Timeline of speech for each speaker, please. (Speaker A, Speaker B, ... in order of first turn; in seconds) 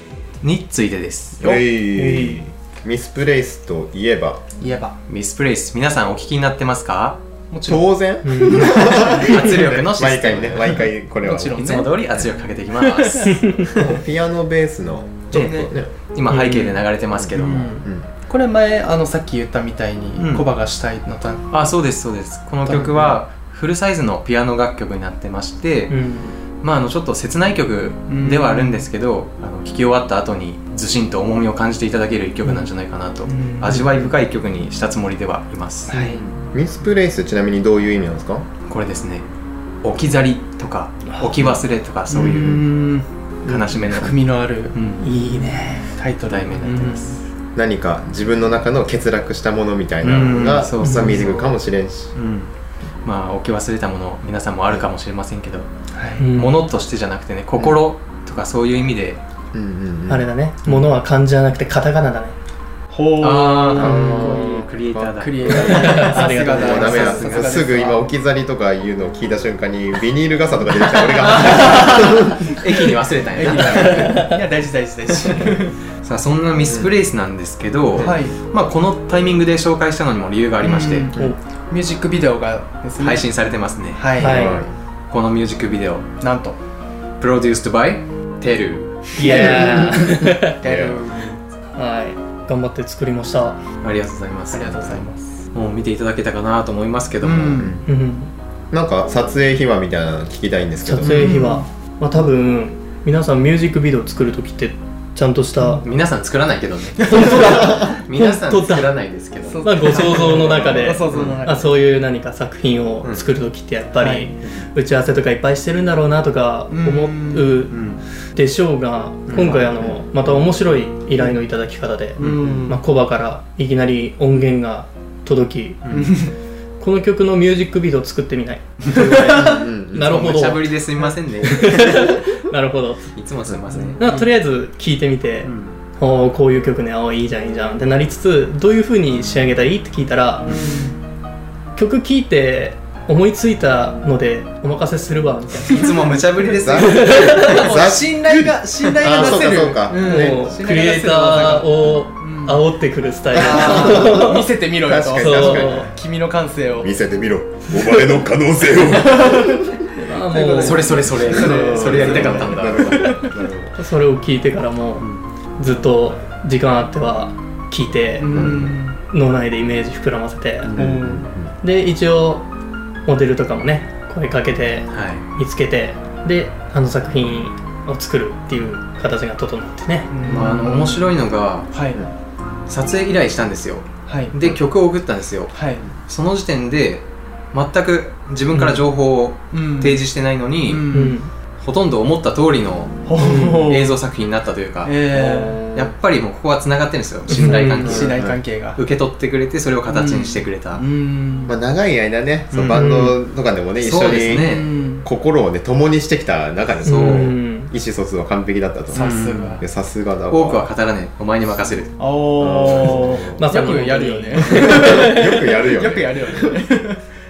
Speaker A: 0.4-1.6, 5.1-7.8, 8.4-10.8, 11.5-13.9, 15.3-17.8, 20.2-20.4, 21.5-26.0, 26.6-36.2, 38.7-39.3, 39.8-42.7, 43.5-44.2, 44.7-45.0, 46.2-47.2, 50.0-51.5, 52.1-52.5, 53.0-55.7, 56.3-59.2, 63.2-67.6, 71.1-74.3, 75.2-81.1, 83.0-84.5, 85.1-86.1, 87.2-89.3, 93.8-95.0, 95.5-97.7, 105.8-110.3, 111.1-111.4, 117.7-118.0, 119.3-119.7, 122.2-122.5, 125.8-126.2, 129.9-132.3, 133.1-134.0, 135.4-135.8, 145.7-147.6, 148.8-149.5, 160.3-163.2, 174.9-175.3, 180.2-181.7, 182.7-190.9, 191.6-200.8, 202.5-202.9, 203.8-204.7, 206.8-207.3, 208.9-209.6, 210.3-212.0
Speaker B: 1.4-4.4, 7.6-11.9, 13.7-15.9, 17.2-18.1, 36.2-38.5, 43.5-43.8, 47.5-52.1, 59.5-60.3, 63.8-72.6, 76.6-76.9, 84.2-84.7, 89.2-91.1, 97.6-97.8, 98.7-101.3, 110.5-111.4, 119.8-120.1, 128.9-130.2, 133.4-133.8, 146.6-150.4, 153.3-155.9, 156.8-159.8, 160.4-163.7, 168.3-168.8, 170.6-171.5, 197.8-198.4, 201.5-204.5, 205.0-210.7, 212.4-213.4, 214.4-216.6
Speaker C: 1.9-2.5, 8.2-8.8, 13.3-13.7, 25.9-26.3, 45.0-45.9, 50.8-51.2, 56.2-56.6, 60.1-62.4, 65.6-67.4, 73.7-74.4, 84.2-84.6, 89.2-90.6, 91.7-93.6, 97.8-98.3, 100.8-105.8, 107.1-108.9, 109.6-125.8, 126.8-130.7, 131.4-133.1, 134.0-140.7, 141.8-145.9, 146.8-147.7, 149.9-154.5, 155.2-155.9, 159.9-161.0, 163.7-165.1, 165.6-170.7, 171.6-172.5, 173.1-180.1, 190.9-191.3, 193.2-193.7, 197.3-198.0, 202.8-203.1, 206.8-207.7, 213.3-215.4
Speaker D: 4.6-5.0, 7.5-7.9, 8.7-9.8, 11.2-12.0, 12.8-13.9, 15.3-15.7, 16.3-16.7, 17.3-21.5, 22.6-23.2, 28.1-28.9, 33.2-34.0, 35.9-36.2, 42.1-43.1, 43.8-44.8, 45.9-47.2, 55.9-56.3, 62.9-68.0, 71.3-72.1, 73.4-75.7, 78.0-78.4, 80.6-83.3, 83.9-84.6, 86.2-86.6, 90.6-91.4, 94.5-95.4, 97.2-97.8, 101.0-101.7, 107.0-107.7, 109.5-111.7, 114.0-114.3, 116.7-117.6, 119.3-119.6, 122.2-122.8, 125.9-126.3, 128.9-129.6, 133.7-134.3, 140.4-141.0, 146.6-152.6, 153.3-156.9, 158.8-159.7, 160.3-163.3, 168.2-169.0, 170.7-171.2, 180.1-181.1, 181.7-182.0, 184.1-184.3, 185.5-185.8, 188.5-188.8, 189.5-190.0, 190.6-191.2, 193.1-193.9, 194.8-195.7, 197.2-198.8, 199.9-201.6, 204.4-205.1, 208.9-209.6, 212.0-217.0